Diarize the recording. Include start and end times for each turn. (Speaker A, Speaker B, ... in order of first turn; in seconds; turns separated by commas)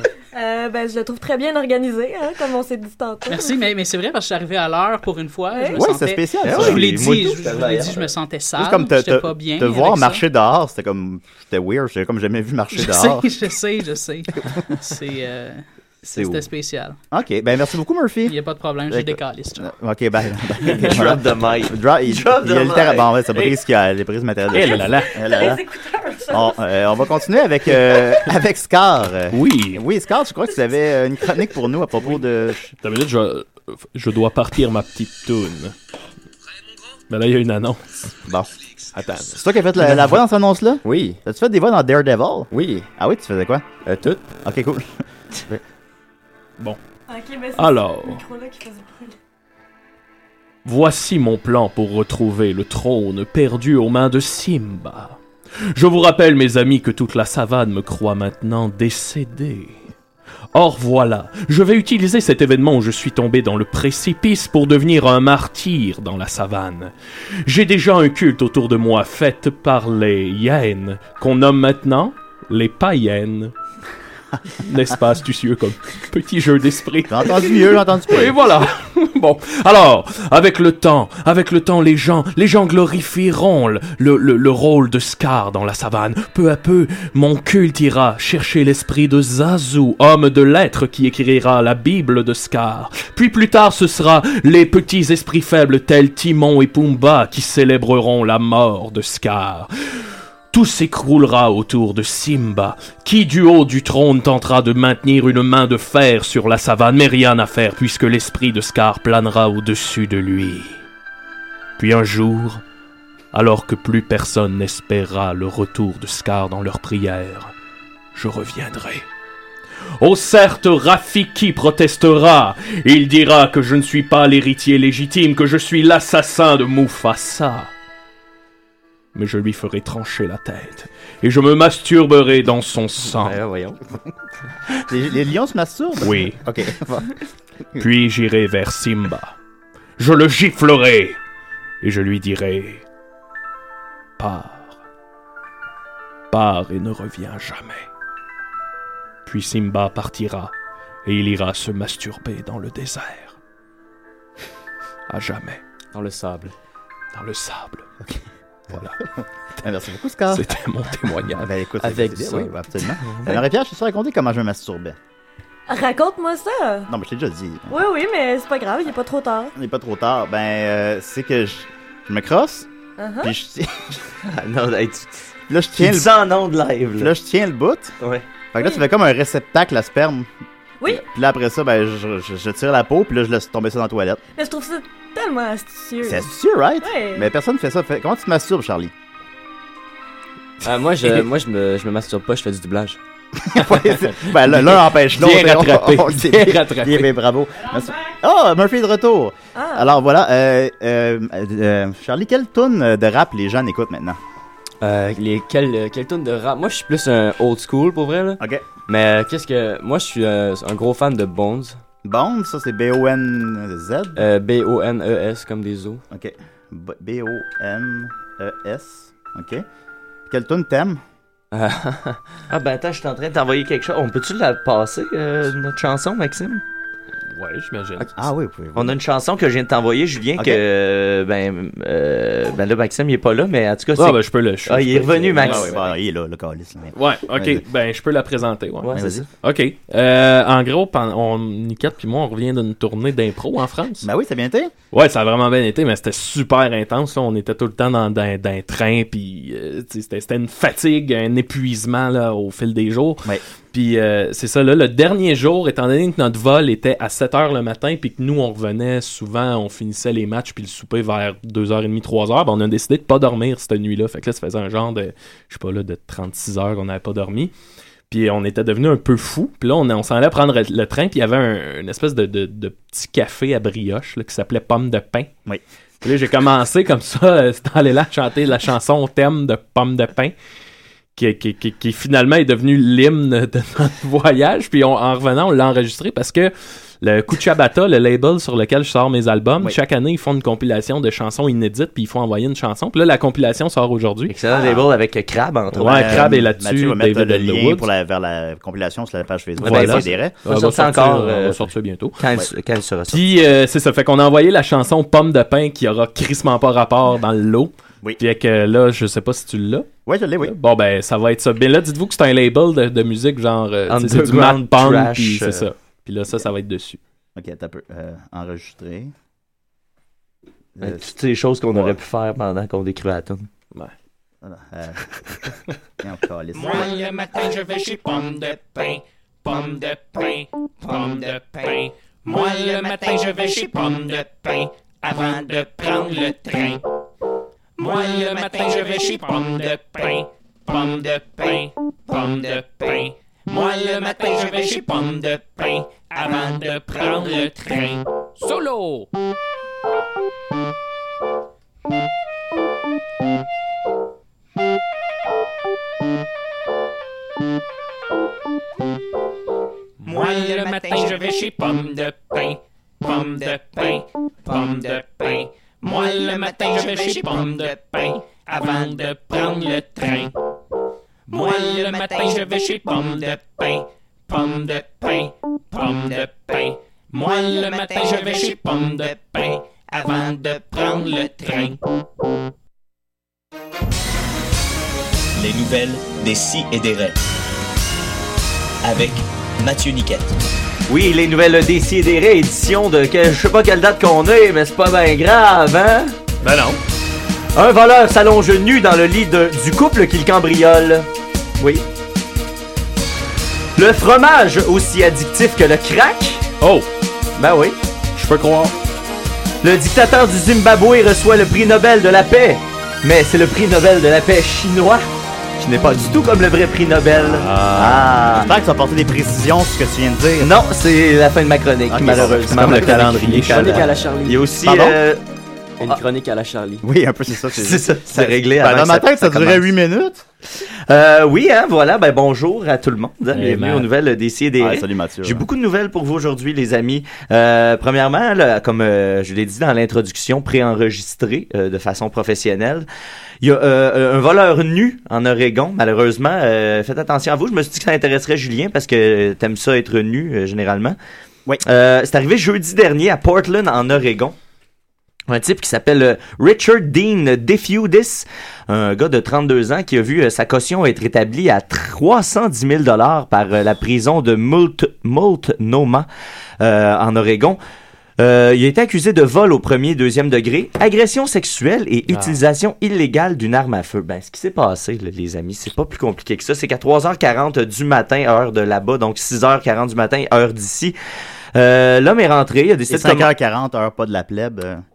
Speaker A: 0.3-3.5, Speaker B: 3.3-10.2, Speaker A: 5.5-5.8, Speaker C: 5.7-6.9, Speaker D: 6.4-8.1, Speaker C: 8.6-13.3, Speaker B: 12.7-17.0, Speaker C: 17.1-18.4, Speaker B: 18.3-19.7, Speaker C: 18.9-25.6, Speaker D: 20.6-23.5, Speaker E: 24.5-25.1, Speaker A: 25.2-26.6, Speaker C: 26.3-32.8, Speaker E: 29.3-29.8, Speaker E: 32.8-35.8, Speaker E: 37.1-37.8, Speaker E: 39.0-39.4, Speaker C: 39.2-43.6, Speaker F: 40.8-41.2, Speaker F: 42.5-42.9, Speaker F: 43.9-44.2, Speaker C: 44.4-45.6, Speaker A: 47.1-49.1, Speaker E: 47.6-48.2, Speaker E: 50.6-55.2, Speaker E: 55.7-59.9, Speaker E: 60.5-66.9, Speaker E: 67.5-73.5, Speaker E: 74.6-99.7, Speaker C: 77.1-78.4, Speaker E: 100.5-110.8, Speaker E: 111.8-112.6, Speaker E: 113.3-117.5, Speaker E: 118.1-119.1, Speaker E: 120.0-127.7, Speaker E: 129.1-133.4, Speaker F: 133.1-133.8, Speaker C: 134.9-137.1, Speaker E: 136.0-136.4, Speaker E: 137.8-139.3, Speaker E: 140.0-141.2, Speaker E: 141.8-142.8, Speaker E: 144.2-144.8, Speaker E: 146.3-147.9, Speaker E: 149.3-150.5, Speaker E: 151.1-153.4, Speaker E: 155.1-155.6, Speaker F: 155.9-156.5, Speaker E: 157.1-157.9, Speaker C: 158.7-160.5, Speaker E: 160.3-161.5, Speaker C: 161.3-165.0, Speaker F: 161.8-162.6, Speaker A: 165.7-166.9, Speaker C: 166.9-167.7, Speaker A: 167.7-169.5, Speaker C: 169.6-172.7, Speaker A: 173.0-173.3, Speaker C: 173.2-174.0, Speaker D: 174.2-177.1, Speaker C: 175.5-176.1, Speaker C: 177.0-177.9, Speaker D: 178.0-178.3, Speaker C: 178.5-180.3, Speaker A: 178.6-178.8, Speaker C: 180.9-184.2, Speaker A: 184.4-187.3, Speaker C: 186.0-188.9, Speaker F: 190.6-193.0, Speaker C: 193.4-204.2, Speaker E: 194.3-197.1, Speaker A: 199.6-200.0, Speaker F: 204.8-211.8, Speaker C: 208.4-208.7, Speaker C: 212.0-214.2, Speaker F: 214.2-216.0, Speaker C: 216.1-219.7, Speaker C: 220.3-221.0, Speaker F: 221.5-222.2, Speaker D: 222.5-226.6, Speaker E: 227.3-228.1, Speaker C: 228.2-229.0, Speaker D: 228.8-235.8, Speaker C: 230.4-230.6, Speaker E: 234.0-235.5, Speaker C: 235.4-237.6, Speaker E: 236.9-244.1, Speaker D: 238.8-239.3, Speaker C: 238.9-239.3, Speaker C: 244.0-244.7, Speaker E: 244.9-267.5, Speaker E: 268.1-275.3, Speaker E: 276.0-280.4, Speaker E: 281.2-294.4, Speaker D: 294.3-296.4, Speaker C: 294.5-294.8, Speaker C: 295.7-300.4, Speaker E: 295.8-297.9, Speaker E: 299.6-302.2, Speaker D: 299.6-303.3, Speaker E: 303.1-309.9, Speaker C: 310.1-310.6, Speaker E: 310.4-317.0, Speaker D: 313.9-315.7, Speaker C: 317.4-319.1, Speaker C: 320.8-321.1, Speaker D: 320.8-323.5, Speaker C: 321.7-322.0, Speaker C: 324.4-325.4, Speaker C: 326.0-327.0, Speaker G: 326.5-336.8, Speaker G: 337.8-348.0, Speaker E: 348.4-349.1, Speaker G: 360.0-370.3, Speaker G: 371.3-381.8, Speaker H: 385.4-387.2, Speaker H: 388.8-390.4, Speaker D: 390.9-396.2, Speaker E: 396.4-396.8, Speaker D: 397.6-401.1, Speaker D: 401.6-401.9, Speaker D: 403.8-406.5, Speaker E: 406.6-406.9, Speaker D: 407.4-407.8, Speaker E: 408.1-408.7, Speaker D: 409.6-415.1, Speaker D: 415.6-418.5, Speaker E: 417.2-418.1, Speaker C: 417.8-420.5, Speaker D: 420.4-425.2, Speaker C: 421.9-423.2, Speaker E: 422.4-423.9, Speaker F: 423.3-424.5, Speaker C: 424.6-425.0, Speaker F: 425.8-426.9, Speaker C: 426.8-430.2, Speaker D: 427.5-429.7, Speaker D: 430.6-442.9, Speaker E: 433.3-433.9, Speaker C: 434.6-435.5, Speaker D: 443.4-451.0, Speaker D: 451.6-454.4, Speaker D: 455.3-466.1, Speaker D: 466.6-467.6, Speaker D: 468.2-480.9, Speaker E: 472.1-472.4, Speaker D: 481.6-483.3, Speaker C: 482.9-484.8